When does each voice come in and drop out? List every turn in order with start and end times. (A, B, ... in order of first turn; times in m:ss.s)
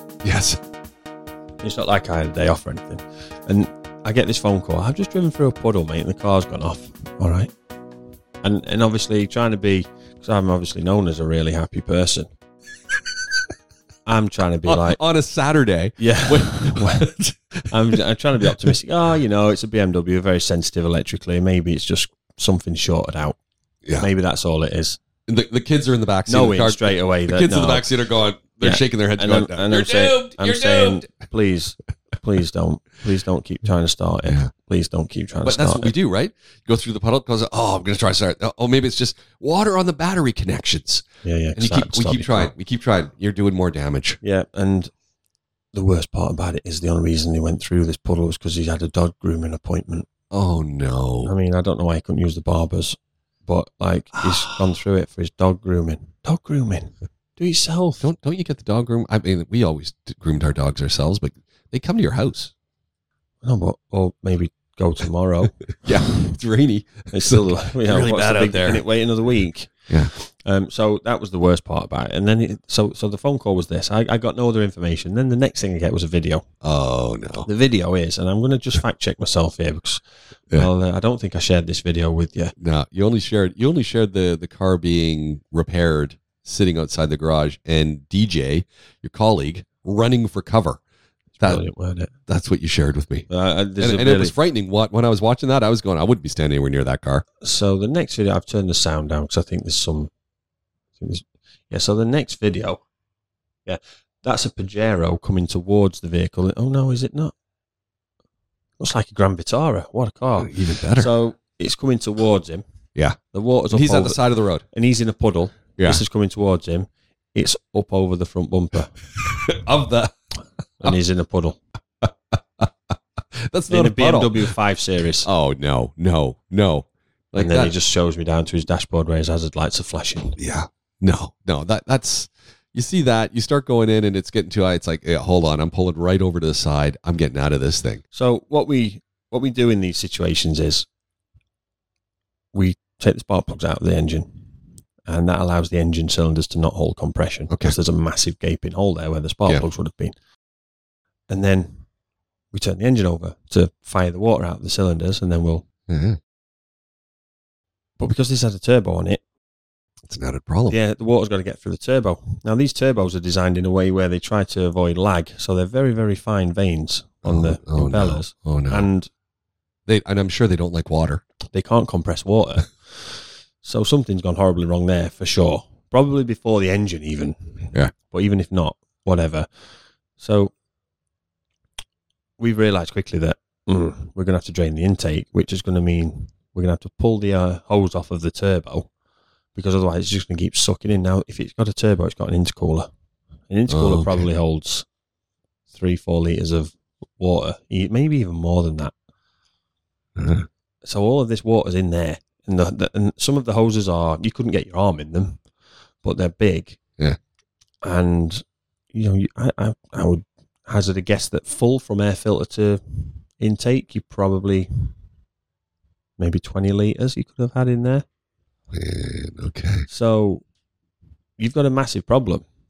0:00.2-0:00.6 A
0:01.6-0:07.5 B
0:08.4-0:12.3 B
0:14.1-0:15.0 B
0:14.6-0:17.7 A
0:16.0-0:17.1 B
0:17.7-0:23.4 B
0:24.0-0:25.0 B
0:25.3-0:31.1 A
0:26.3-0:27.9 B
0:28.5-0:36.0 B
0:34.2-0:34.5 A
0:35.4-0:41.0 A
0:41.2-0:42.5 B
0:41.6-0:44.2 A
0:44.2-0:44.9 B
0:45.7-0:50.1 B
0:50.3-0:51.3 A
0:51.2-0:58.1 B
0:58.0-1:02.5 A
1:03.4-1:05.6 B
1:05.8-1:08.8 A
1:07.1-1:16.4 B
1:16.6-1:17.5 A
1:17.4-1:22.5 B
1:22.6-1:30.8 A
1:31.4-1:32.1 B
1:32.3-1:37.2 A
1:33.3-1:34.4 B
1:37.4-1:40.1 B
1:41.0-1:42.8 B
1:43.6-1:47.3 B
1:48.8-1:52.6 B
1:50.4-1:51.1 A
1:53.3-1:58.9 B
1:53.7-1:54.6 A
1:55.8-1:56.0 A
1:59.2-2:00.1 A
2:00.8-2:01.6 B
2:02.0-2:02.7 A
2:03.5-2:04.5 A
2:03.7-2:05.3 B
2:05.2-2:07.8 A
2:07.4-2:10.4 B
2:10.4-2:18.0 A
2:18.1-2:20.9 B
2:22.5-2:24.5 B
2:25.0-2:30.1 B
2:27.5-2:27.8 A
2:31.3-2:31.8 B
2:32.5-2:35.7 B
2:35.9-2:36.2 A
2:38.0-2:39.2 B
2:40.1-2:40.8 A
2:40.7-2:49.1 B
2:47.2-2:48.9 A
2:49.9-2:51.2 A
2:51.5-2:59.5 B
3:00.2-3:00.5 B
3:02.4-3:08.9 B
3:09.5-3:12.9 B
3:13.5-3:14.8 B
3:13.7-3:14.3 A
3:15.7-3:18.9 B
3:20.2-3:20.5 A
3:20.8-3:25.4 B
3:26.0-3:26.8 B
3:27.8-3:34.9 B
3:36.2-3:38.0 B
3:38.7-3:39.9 A
3:39.9-3:40.4 B
3:41.4-3:42.4 B